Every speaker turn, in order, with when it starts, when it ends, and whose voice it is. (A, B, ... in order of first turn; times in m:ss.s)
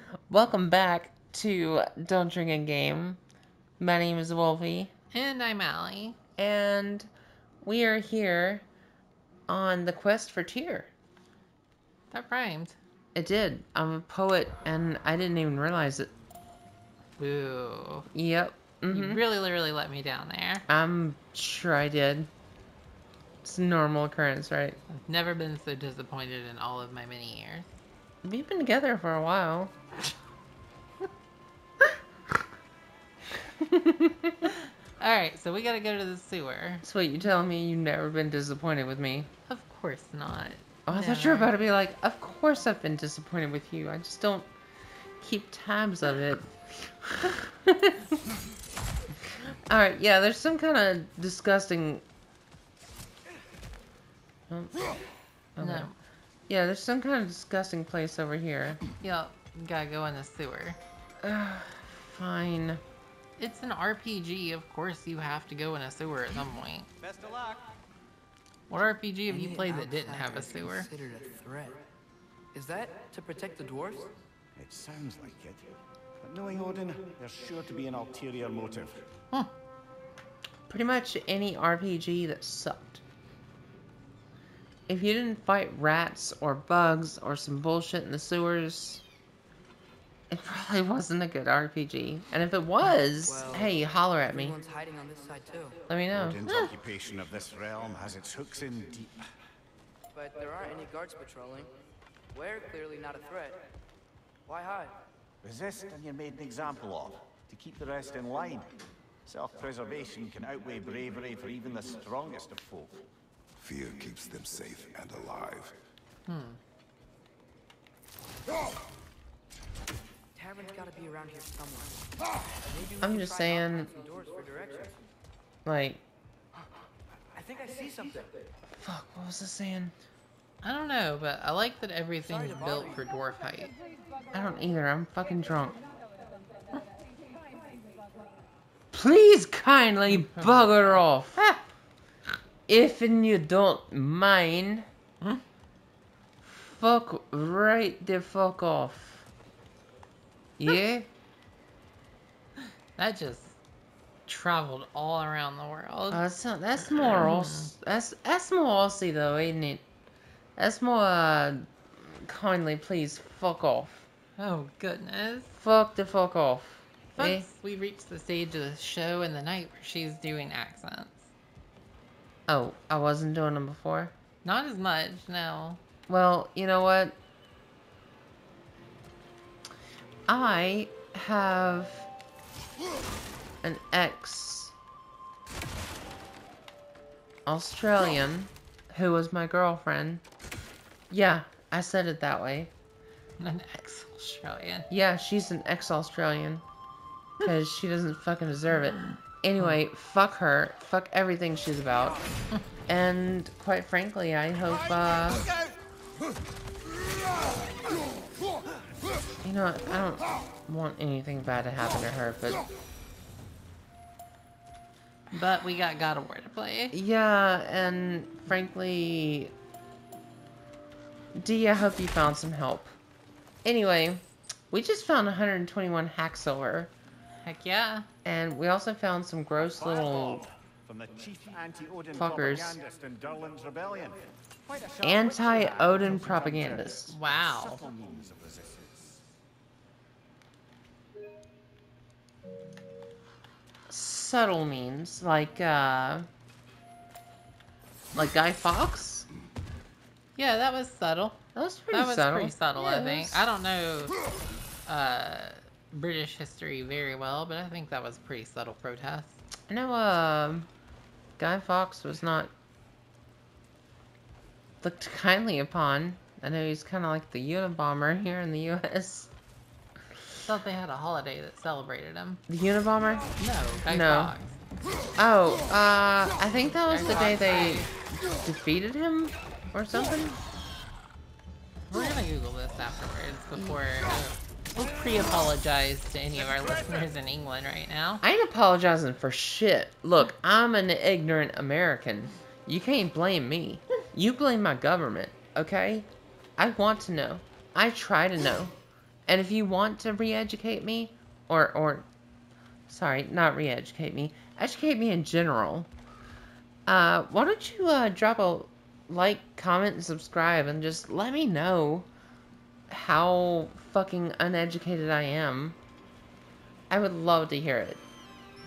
0:00.3-0:03.2 A
0:03.8-0:04.9 A
0:05.1-0:06.2 B
0:06.4-0:07.1 A
0:07.6-0:08.6 A
0:09.5-0:10.9 A
0:12.1-0:12.8 B
0:13.1-0:16.1 A
0:17.2-0:18.1 B
0:18.1-0:19.2 A
0:18.9-0:20.6 B
0:20.7-0:22.3 A
0:23.4-0:24.8 A
0:24.9-0:27.7 B
0:28.2-0:29.7 A
0:33.6-0:34.4 A
0:34.4-0:36.8 B
0:36.8-0:39.3 A
0:39.5-0:41.5 B
0:40.9-0:44.5 A
0:45.2-0:48.2 A
0:49.2-0:52.0 A
0:54.5-0:54.8 A
0:55.6-0:55.9 A
0:55.6-0:55.9 B
0:56.5-0:58.8 A
0:59.0-1:00.8 B
1:01.2-1:02.8 A
1:03.4-1:06.9 B
1:07.0-1:07.6 C
1:08.7-1:10.9 B
1:09.3-1:11.8 D
1:12.5-1:14.1 D
1:14.6-1:19.0 C
1:20.7-1:23.0 A
1:24.9-1:29.0 A
1:30.3-1:34.6 A
1:33.2-1:35.8 D
1:35.9-1:36.4 A
1:36.1-1:39.2 C
1:36.4-1:36.7 B
1:40.1-1:41.8 D
1:42.3-1:43.6 D
1:44.5-1:45.0 D
1:45.4-1:48.7 C
1:49.2-1:53.0 C
1:53.6-1:55.8 E
1:56.2-1:56.6 B
2:00.3-2:05.0 D
2:03.0-2:03.9 A
2:05.6-2:06.0 A
2:07.3-2:08.4 D
2:08.7-2:09.9 A
2:10.6-2:13.7 B
2:12.2-2:13.0 D
2:14.3-2:15.8 A
2:18.9-2:21.4 A
2:20.1-2:21.6 B
2:22.7-2:24.9 A
2:26.4-2:29.2 A
2:30.6-2:31.1 A
2:32.6-2:33.5 B
2:34.3-2:36.2 B
2:36.1-2:39.8 A
2:36.8-2:37.7 B
2:40.6-2:44.1 A
2:44.4-2:45.5 B
2:45.6-2:47.5 A
2:47.1-2:51.2 B
2:52.5-2:54.1 A
2:54.4-2:55.8 B
2:56.1-2:57.2 A
3:00.3-3:02.1 A
3:03.6-3:04.7 A
3:07.4-3:10.2 A
3:11.1-3:12.7 A
3:13.4-3:14.9 B
3:14.9-3:16.6 A
3:17.4-3:22.2 A
3:22.9-3:25.5 A
3:29.4-3:32.6 A
3:35.3-3:36.9 B
3:36.9-3:39.5 A
3:41.3-3:42.9 A
3:43.6-3:46.9 A
3:47.4-3:48.1 B
3:48.2-3:50.5 A
3:49.6-3:59.2 C
3:52.1-3:52.8 A
3:55.0-3:57.1 A
3:57.1-3:57.8 B
4:03.9-4:06.2 A
4:08.1-4:09.3 A
4:10.3-4:11.4 B
4:11.5-4:13.4 A
4:11.9-4:14.2 B
4:14.8-4:19.3 B
4:19.7-4:20.7 A
4:21.4-4:22.5 A
4:24.8-4:29.3 A
4:30.4-4:32.4 B
4:32.5-4:33.4 A
4:33.4-4:34.6 B
4:33.9-4:34.3 A
4:35.2-4:40.4 A
4:36.7-4:37.9 B
4:41.9-4:48.2 B
4:43.5-4:43.8 A
4:48.2-4:58.7 A
4:59.3-5:02.1 A
5:02.9-5:05.9 A
5:06.8-5:12.1 A
5:12.9-5:15.8 A
5:16.9-5:18.0 A